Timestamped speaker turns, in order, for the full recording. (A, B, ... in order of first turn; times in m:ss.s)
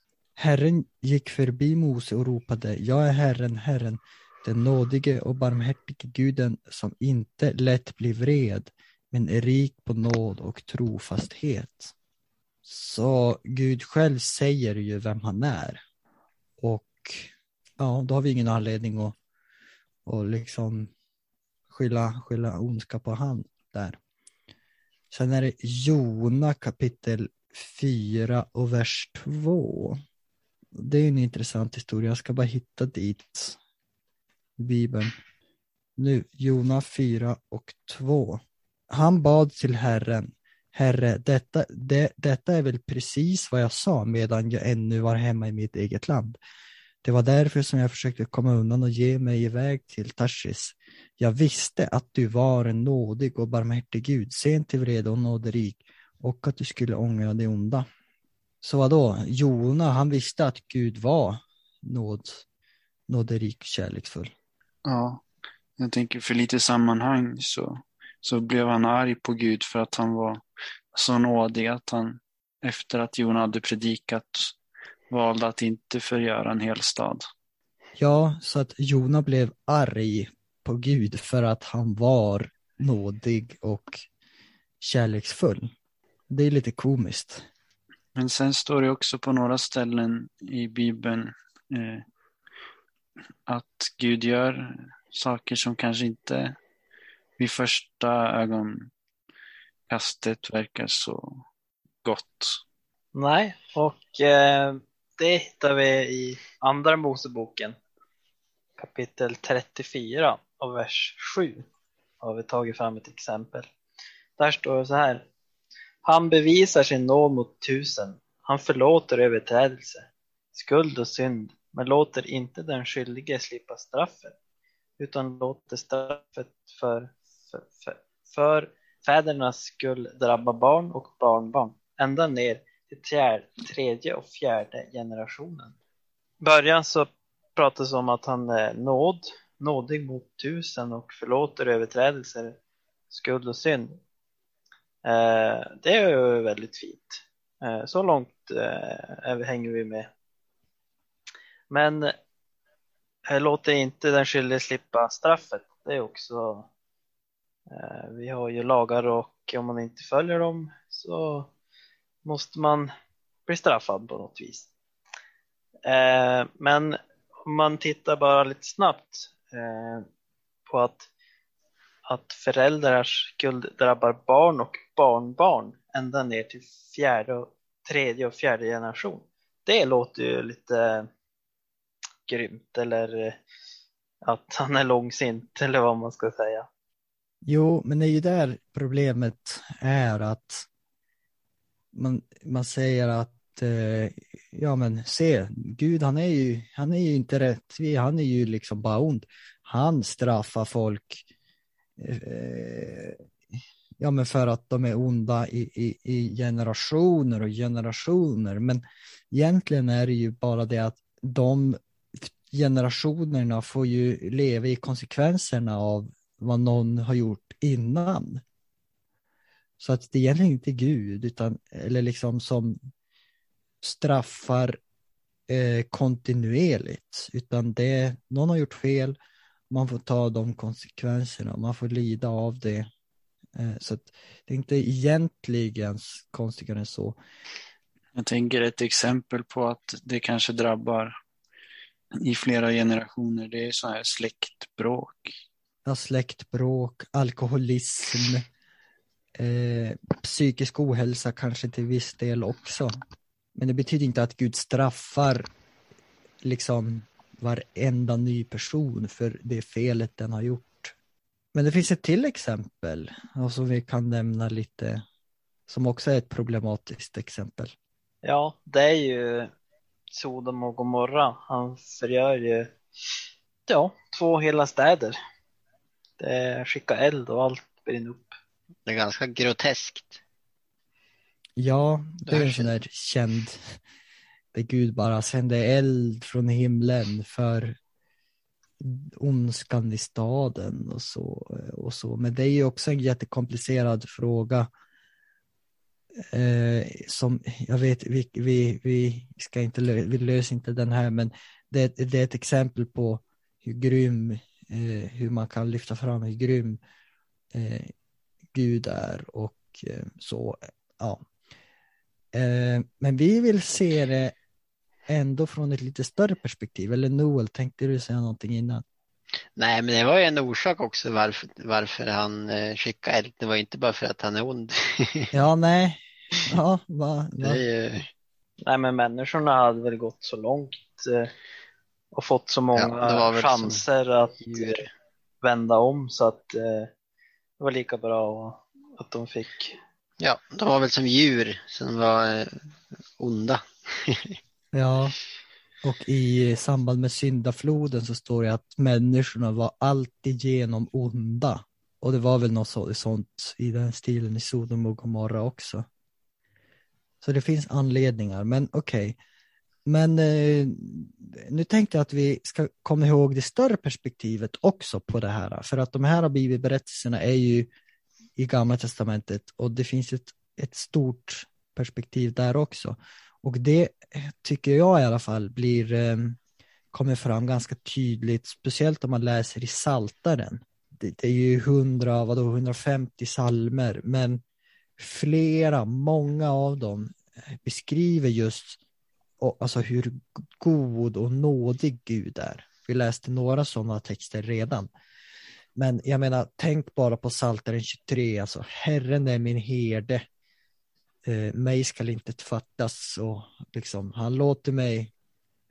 0:00.4-0:11.9 A
0:12.6-0:15.8 A
0:16.6-0:19.2 A
0:20.0-0:20.9 A
0:21.7-0:24.0 A
0:25.1-0:30.0 A
0:30.8-0:33.6 A
0:34.6-0:35.2 A
0:36.0-0:46.4 A
0:47.0-0:57.9 A
0:58.6-1:02.4 A
1:03.1-1:04.3 A
1:04.8-1:05.2 B
1:05.8-1:10.4 B
1:10.9-1:14.5 B
1:15.1-1:17.2 B
1:18.0-1:24.0 A
1:24.8-1:25.7 A
1:26.3-1:27.5 A
1:28.2-1:32.0 B
1:33.5-1:36.6 B
1:37.4-1:38.9 B
1:39.9-1:41.4 B
1:42.0-1:42.6 B
1:43.1-1:47.8 C
1:48.8-1:51.7 C
1:52.2-1:53.7 C
1:54.4-1:55.2 C
1:56.0-2:04.3 C
2:05.0-2:15.7 C
2:16.4-2:22.6 C
2:23.1-2:24.0 C
2:25.0-2:30.1 C
2:31.7-2:32.1 C
2:33.3-2:36.7 C
2:37.7-2:41.5 C
2:42.2-2:42.9 C
2:43.5-2:44.7 C
2:45.8-2:50.0 C
2:50.7-2:51.1 C
2:52.0-3:01.1 C
3:02.2-3:03.4 C
3:04.2-3:06.7 C
3:07.4-3:10.6 A
3:11.9-3:21.2 A
3:22.0-3:23.2 A
3:24.0-3:38.4 A
3:39.8-3:42.8 A
3:43.8-3:44.8 A
3:45.5-3:49.1 A
3:49.7-3:52.9 A
3:53.5-3:57.2 A
3:58.2-4:01.1 B
4:02.2-4:05.4 B
4:05.8-4:08.4 A
4:09.4-4:13.0 A
4:13.5-4:15.5 A
4:16.4-4:20.9 A
4:21.5-4:25.0 A
4:25.7-4:27.7 A
4:28.2-4:29.5 C
4:30.1-4:32.7 C
4:33.7-4:35.2 C
4:36.2-4:38.3 C
4:38.8-4:40.2 D
4:41.6-4:43.8 A
4:42.2-4:42.7 D
4:44.5-4:47.8 A
4:48.8-4:54.7 A
4:56.2-5:06.8 A
5:07.5-5:07.9 A
5:08.5-5:11.2 A
5:12.3-5:14.3 A
5:15.1-5:18.8 A
5:19.6-5:25.3 D
5:25.3-5:27.6 A
5:27.4-5:28.1 D
5:28.6-5:31.3 C
5:32.1-5:34.9 C
5:32.7-5:33.8 D
5:34.4-5:34.8 D
5:35.4-5:36.9 C
5:37.6-5:39.8 C
5:40.2-5:42.6 D
5:43.2-5:44.4 D
5:44.7-5:45.2 A
5:45.8-5:55.9 A
5:57.2-5:59.2 A
5:59.8-6:07.7 A
6:08.4-6:16.4 A
6:16.9-6:24.4 A
6:25.0-6:28.8 A
6:29.4-6:34.9 A
6:35.8-6:40.2 A
6:41.2-6:45.1 A